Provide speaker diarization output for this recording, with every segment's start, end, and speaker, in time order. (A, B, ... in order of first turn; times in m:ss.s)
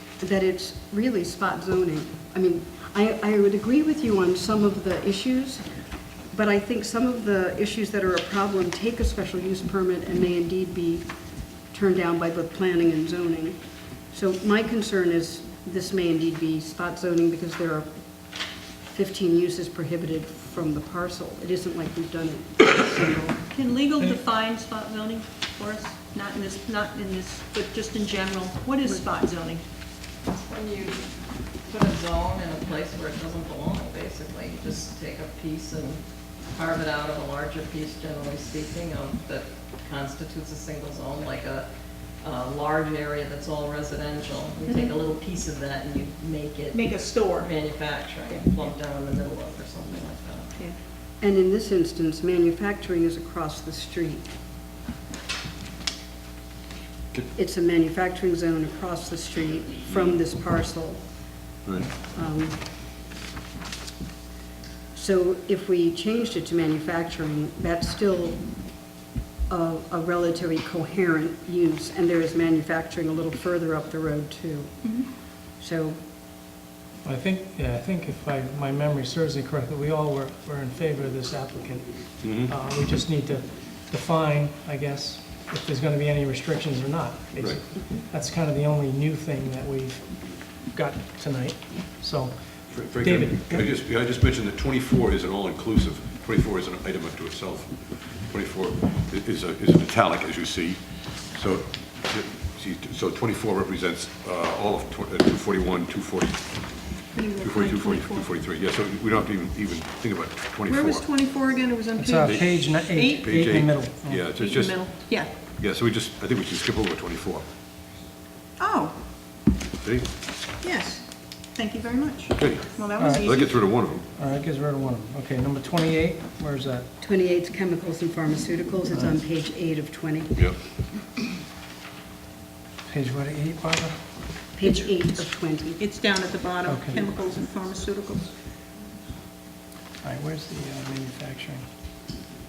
0:00.2-0:05.7 A
0:06.3-0:11.1 A
0:11.7-0:17.9 A
0:18.9-0:23.4 A
0:23.5-0:29.6 B
0:30.3-0:31.1 C
0:31.6-0:41.7 C
0:42.2-0:50.5 C
0:44.6-0:44.9 B
0:46.7-0:47.5 B
0:51.2-0:54.3 A
0:57.3-1:01.0 A
1:02.1-1:02.6 A
1:04.9-1:08.4 A
1:09.5-1:16.0 A
1:14.8-1:15.1 B
1:17.0-1:33.7 D
1:22.2-1:22.5 E
1:27.4-1:27.6 E
1:32.7-1:51.1 E
1:47.1-1:48.3 B
1:50.7-1:53.2 B
1:51.9-1:54.3 D
1:52.2-1:55.0 E
1:54.3-1:55.3 B
1:55.5-1:57.4 E
1:58.6-1:59.0 B
1:59.8-2:00.1 E
2:00.6-2:03.7 B
2:02.4-2:04.1 E
2:03.0-2:03.4 D
2:04.0-2:06.9 D
2:07.0-2:10.4 A
2:08.9-2:09.2 D
2:12.9-2:13.9 D
2:14.6-2:15.8 A
2:14.6-2:18.3 B
2:16.6-2:17.1 D
2:20.0-2:21.6 D